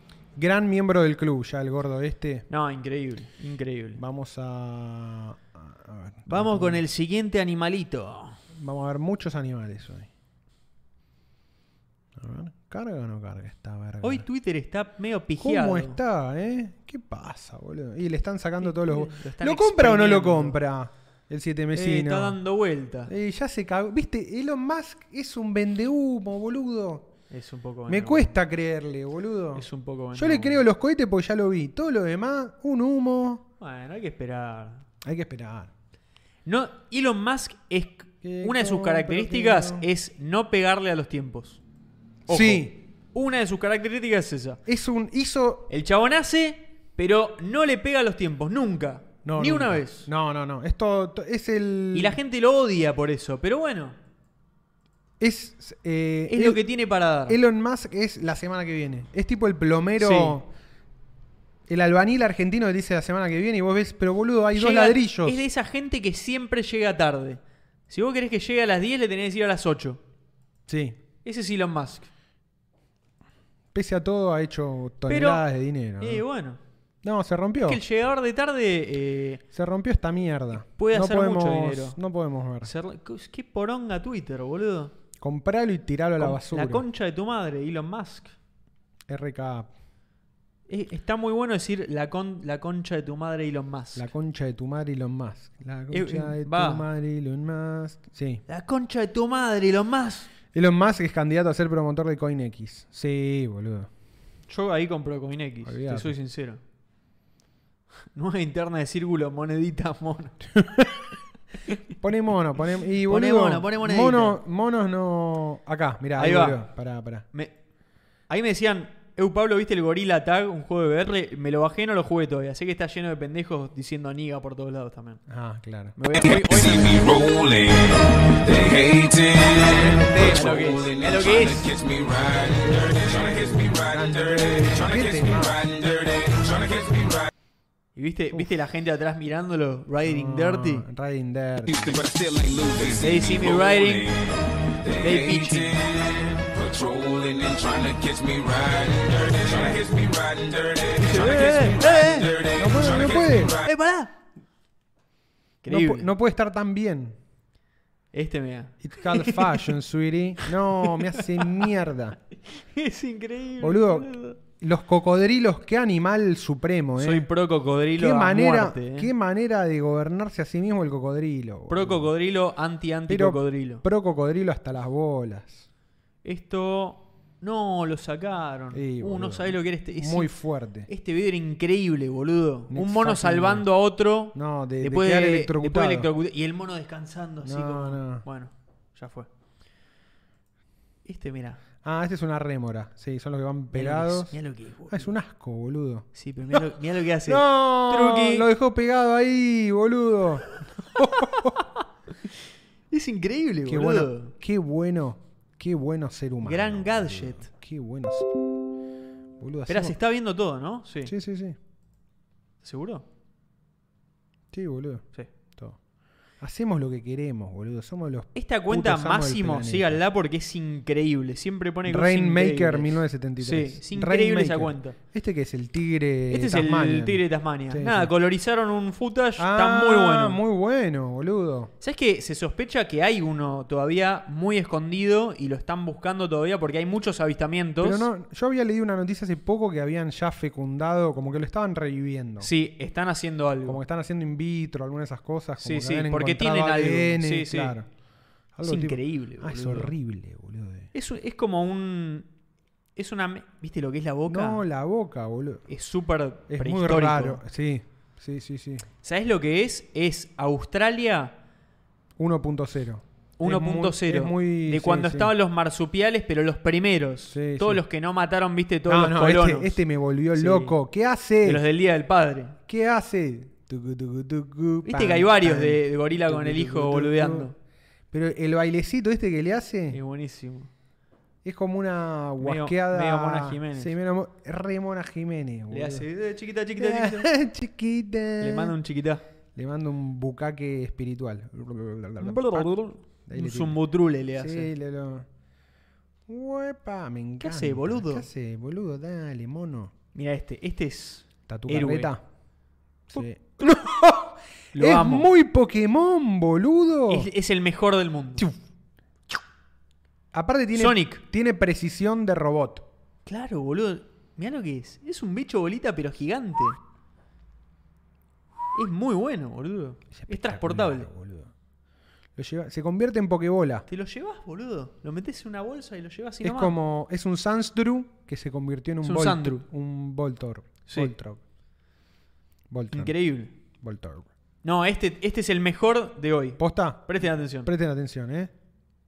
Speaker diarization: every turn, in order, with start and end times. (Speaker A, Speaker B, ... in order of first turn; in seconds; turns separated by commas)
Speaker A: 0.3-2.5, Speaker B: 2.5-4.0, Speaker A: 4.0-6.8, Speaker B: 6.3-8.4, Speaker A: 8.5-10.1, Speaker A: 12.2-14.2, Speaker B: 14.0-16.0, Speaker A: 15.4-22.4, Speaker B: 18.6-20.6, Speaker B: 21.7-23.1, Speaker A: 23.1-27.1, Speaker B: 27.3-28.3, Speaker A: 27.9-33.4, Speaker B: 29.5-30.6, Speaker B: 33.6-34.9, Speaker A: 35.0-35.7, Speaker B: 36.5-41.6, Speaker A: 38.2-39.9, Speaker A: 42.3-42.8, Speaker B: 42.3-44.6, Speaker A: 44.6-45.7, Speaker B: 45.7-50.1, Speaker A: 49.2-52.2, Speaker B: 51.9-54.0, Speaker A: 55.2-56.6, Speaker B: 56.3-57.4, Speaker A: 57.3-60.5, Speaker B: 60.0-60.4, Speaker A: 61.7-65.4, Speaker B: 64.5-70.0, Speaker A: 70.7-71.0, Speaker B: 71.2-72.1, Speaker A: 73.7-76.2, Speaker B: 75.1-75.4, Speaker B: 76.0-76.6, Speaker A: 77.0-77.8, Speaker B: 77.6-79.4, Speaker A: 79.5-82.7, Speaker B: 80.7-82.0, Speaker B: 82.6-84.9, Speaker A: 85.2-86.8, Speaker B: 86.2-88.3, Speaker A: 89.1-89.7, Speaker B: 90.7-94.1, Speaker A: 94.0-98.4, Speaker B: 95.9-96.8, Speaker B: 98.5-100.3, Speaker A: 100.5-103.9, Speaker B: 104.5-106.6, Speaker A: 105.6-106.2, Speaker B: 108.1-110.4, Speaker A: 110.5-111.1, Speaker A: 111.9-117.2, Speaker B: 113.0-114.4, Speaker B: 116.2-116.6, Speaker B: 118.3-125.2, Speaker A: 125.3-126.0, Speaker B: 126.0-127.1, Speaker C: 126.2-137.3, Speaker A: 129.6-130.5, Speaker B: 130.3-131.7, Speaker A: 133.9-135.6, Speaker B: 137.9-140.9, Speaker A: 140.0-141.7, Speaker C: 141.7-153.7, Speaker B: 142.9-144.1, Speaker B: 145.0-145.8, Speaker B: 151.0-152.3, Speaker A: 152.6-153.6, Speaker B: 153.6-154.1, Speaker B: 155.6-156.1, Speaker A: 155.7-157.2, Speaker B: 158.1-159.8, Speaker A: 158.8-162.2, Speaker B: 160.4-161.7, Speaker B: 162.5-164.4, Speaker A: 163.6-167.3, Speaker B: 167.0-169.1, Speaker A: 168.0-172.1, Speaker B: 171.7-173.8, Speaker A: 173.1-175.7, Speaker B: 176.2-180.3, Speaker A: 178.7-180.9, Speaker B: 180.9-189.3, Speaker A: 182.7-183.7, Speaker A: 184.3-186.1, Speaker A: 187.4-188.2, Speaker B: 191.0-191.6, Speaker A: 191.8-194.3, Speaker B: 193.7-195.1, Speaker A: 194.9-196.6, Speaker B: 196.1-198.5, Speaker A: 197.2-201.6, Speaker B: 201.0-201.7, Speaker B: 202.9-204.3, Speaker A: 203.7-208.3, Speaker B: 206.4-207.5, Speaker A: 209.4-209.9, Speaker B: 209.7-211.1, Speaker A: 211.1-211.6, Speaker B: 212.6-213.0, Speaker A: 214.5-215.8, Speaker A: 216.4-220.0, Speaker B: 218.3-225.0, Speaker A: 221.8-228.1, Speaker B: 226.3-230.4, Speaker A: 229.4-231.7, Speaker B: 231.8-238.1, Speaker A: 237.8-242.5, Speaker B: 242.4-243.8, Speaker A: 243.6-247.9, Speaker B: 245.6-247.7, Speaker A: 248.5-250.9, Speaker B: 248.6-249.9, Speaker B: 250.9-252.3, Speaker B: 252.9-254.6, Speaker A: 254.2-255.6, Speaker B: 255.7-257.4, Speaker A: 256.5-258.9, Speaker B: 259.0-261.4, Speaker A: 262.2-265.3, Speaker B: 263.4-269.8, Speaker A: 267.3-267.8, Speaker A: 268.9-271.6, Speaker B: 270.3-270.7, Speaker B: 271.4-272.6, Speaker A: 272.7-277.5, Speaker B: 274.8-277.5, Speaker A: 278.1-280.0, Speaker B: 279.9-280.7, Speaker A: 281.4-286.1, Speaker B: 282.4-283.9, Speaker B: 285.7-287.3, Speaker A: 286.8-288.7, Speaker B: 288.4-289.2, Speaker A: 289.5-292.7, Speaker B: 292.2-294.7, Speaker A: 293.2-293.8, Speaker A: 294.3-295.3, Speaker A: 296.3-299.9, Speaker B: 297.4-298.2, Speaker B: 300.1-302.1, Speaker A: 301.5-302.2, Speaker A: 303.1-307.3, Speaker B: 304.7-305.3, Speaker B: 307.1-308.5, Speaker A: 310.3-312.9, Speaker B: 310.7-311.2, Speaker B: 313.2-316.8, Speaker B: 318.7-321.1, Speaker A: 320.1-321.5, Speaker A: 322.4-323.9, Speaker B: 323.9-326.7, Speaker A: 326.4-331.4, Speaker B: 329.0-329.6, Speaker B: 330.9-331.1, Speaker A: 332.7-333.1, Speaker B: 332.9-333.5, Speaker A: 333.8-334.3, Speaker B: 334.6-337.7, Speaker A: 336.6-338.5